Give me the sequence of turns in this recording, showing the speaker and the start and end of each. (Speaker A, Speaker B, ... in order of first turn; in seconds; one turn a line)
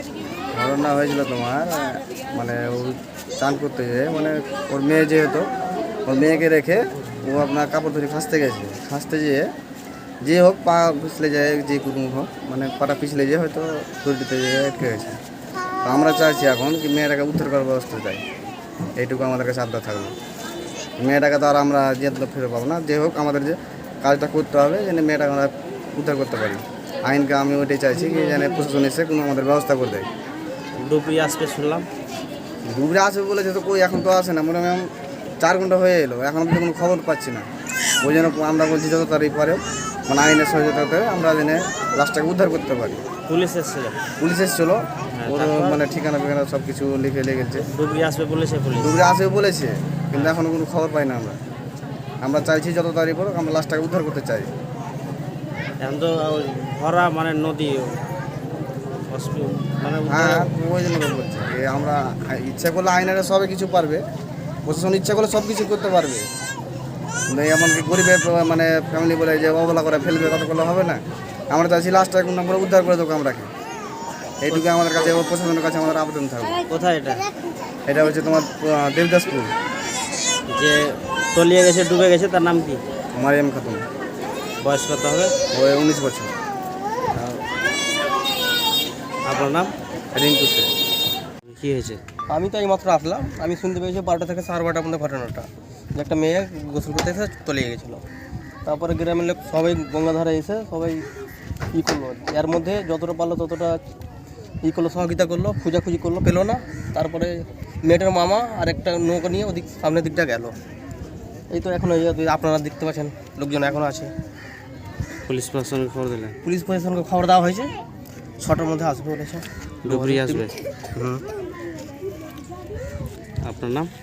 Speaker A: 0.5-5.5
Speaker A: 6.1-9.5
Speaker A: 10.2-15.2
Speaker A: 15.8-18.2
Speaker A: 19.0-20.1
Speaker A: 21.0-30.1
Speaker B: 30.8-31.9
Speaker A: 32.7-34.9
Speaker A: 35.4-37.5
Speaker A: 38.0-43.0
Speaker B: 43.3-44.0
Speaker A: 44.2-47.7
Speaker B: 45.2-45.8
Speaker B: 47.7-49.0
Speaker A: 48.8-51.4
Speaker B: 50.1-50.4
Speaker A: 52.2-54.5
Speaker B: 55.8-58.0
Speaker B: 59.1-60.5
Speaker A: 60.1-64.0
Speaker A: 64.7-66.3
Speaker A: 67.3-73.5
Speaker A: 74.4-76.6
Speaker B: 74.5-75.2
Speaker B: 76.7-77.2
Speaker A: 77.9-79.5
Speaker B: 80.5-82.8
Speaker A: 83.2-83.8
Speaker B: 84.6-85.3
Speaker A: 85.5-86.3
Speaker B: 89.3-89.7
Speaker A: 90.1-90.7
Speaker B: 91.5-92.0
Speaker C: 92.3-98.0
Speaker C: 98.7-101.0
Speaker C: 101.7-103.8
Speaker C: 104.6-110.6
Speaker C: 111.5-114.1
Speaker B: 115.3-116.4
Speaker C: 116.4-117.7
Speaker C: 118.4-121.2
Speaker B: 119.9-120.5
Speaker B: 123.5-123.9